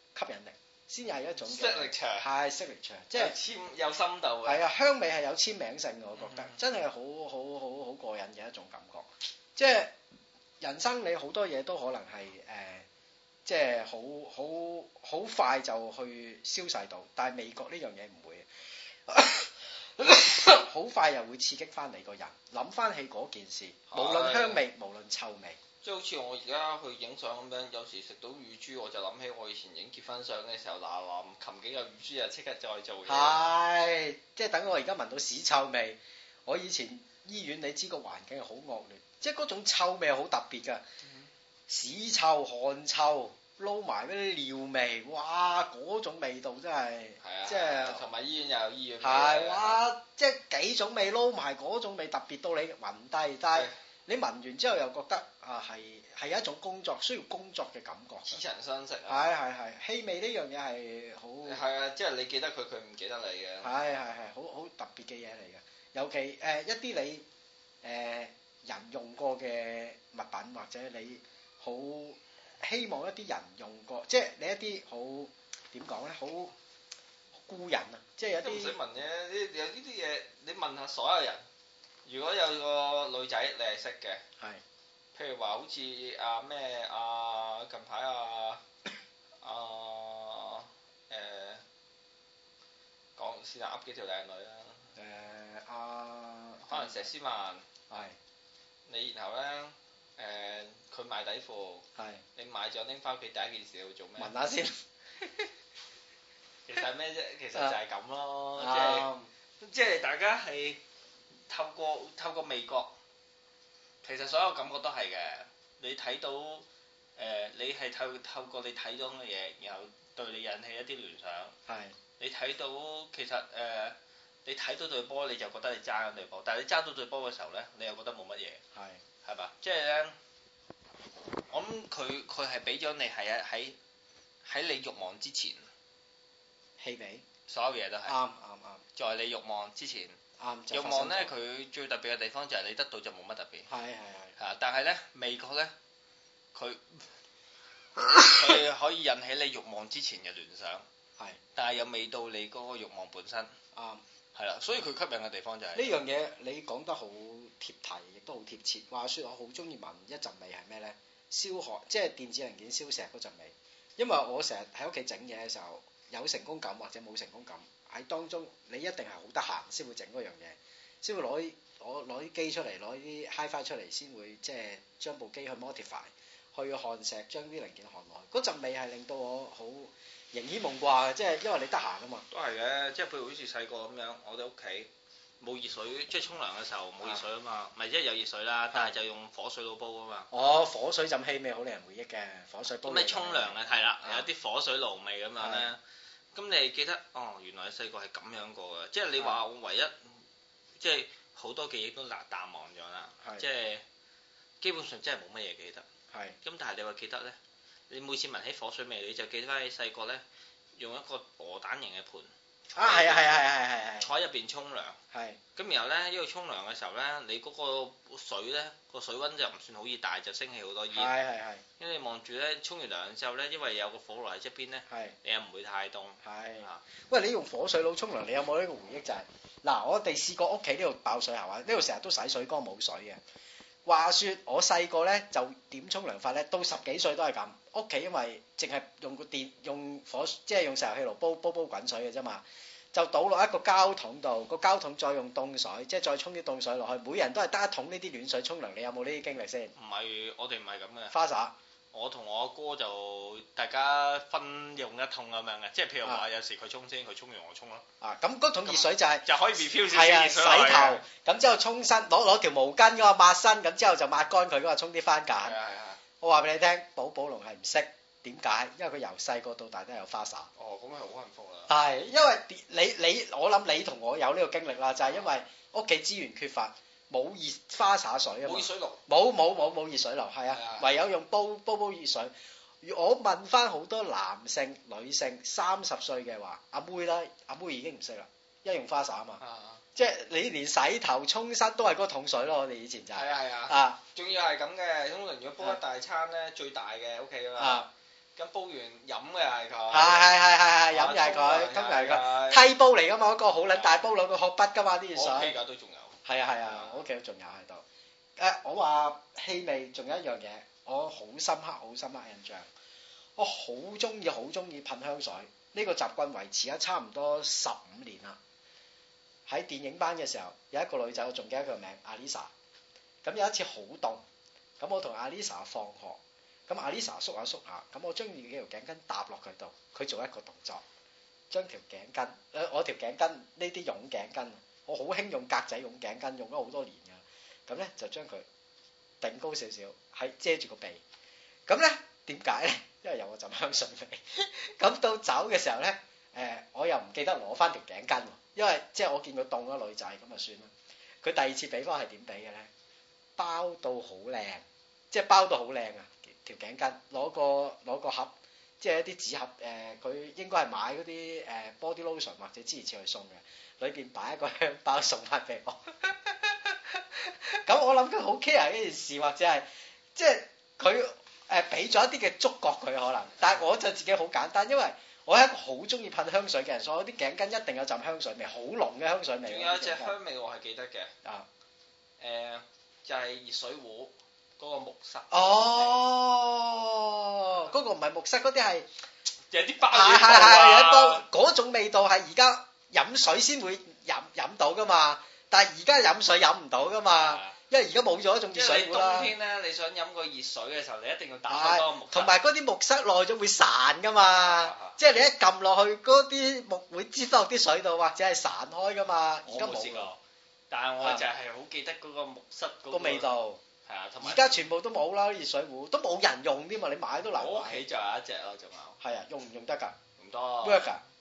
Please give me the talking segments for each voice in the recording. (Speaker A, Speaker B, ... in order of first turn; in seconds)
Speaker A: 0.1-3.4, 4.4-9.9, 10.6-12.8, 13.4-18.5, 19.1-25.6, 33.1-40.8, 41.7-48.0, 49.0-58.4, 59.1-61.6, 63.6-67.2, 67.8-76.5, 77.4-78.8, 94.9-97.1, 97.9-98.2, 102.0-102.2, 104.2-105.5, 108.6-109.3, 121.7-121.9, 128.7-129.0, 136.8-137.2, 138.1-138.8, 140.4-141.3, 143.7-144.3, 148.1-148.4, 153.7-154.0, 155.7-182.2, 190.3-194.2, 195.4-195.7, 203.2-203.5, 206.1-206.4, 212.7-214.1, 215.1-215.4, 220.9-221.6, 224.9-225.2, 226.2-233.2, 233.8-242.4, 242.9-249.7, 251.1-251.5, 258.0-265.6, 266.2-270.5, 271.7-289.4, 289.9-294.0, 297.6-297.9, 299.9-305.5, 306.2-307.8, 308.4-312.7, 313.4-318.4, 319.5-322.5, 323.2-324.2, 324.8-330.8, 331.5-338.4, 339.2-341.0, 341.7-350.7, 351.2-352.7, 353.4-380.1, 385.3-388.9, 389.8-399.3, 401.5-410.1, 412.9-413.6, 414.2-417.8, 419.0-420.0, 420.6-421.0
Speaker B: 1.4-2.3, 3.1-4.6, 6.2-6.5, 23.9-24.6, 25.8-33.5, 47.2-49.8, 58.2-59.3, 61.5-63.7, 78.3-81.4, 82.0-84.2, 85.1-88.6, 89.4-91.6, 93.2-94.9, 96.7-97.6, 98.8-101.8, 102.3-104.3, 106.7-109.1, 109.6-110.8, 111.5-113.0, 114.0-121.5, 122.2-128.6, 129.2-130.1, 131.5-133.8, 134.4-135.7, 137.5-138.2, 138.9-140.2, 140.7-143.7, 144.4-145.7, 146.5-147.1, 148.3-150.8, 151.6-153.5, 154.3-156.0, 182.3-190.3, 192.8-195.8, 196.3-200.1, 200.8-203.8, 204.6-205.8, 206.4-207.3, 207.9-210.2, 210.8-213.5, 214.0-215.0, 215.6-221.1, 221.8-226.8, 249.8-251.1, 251.9-257.9, 258.6-261.0, 265.4-266.0, 270.6-271.7, 278.4-279.0, 280.5-280.9, 289.4-289.8, 293.1-300.3, 300.9-302.7, 303.7-304.0, 305.1-307.0, 379.4-381.1, 382.2-386.0, 389.5-391.2, 397.1-397.6, 398.5-402.3, 404.3-405.0, 409.4-410.2, 410.7-413.3, 413.8-414.6, 417.3-419.0, 420.2-420.9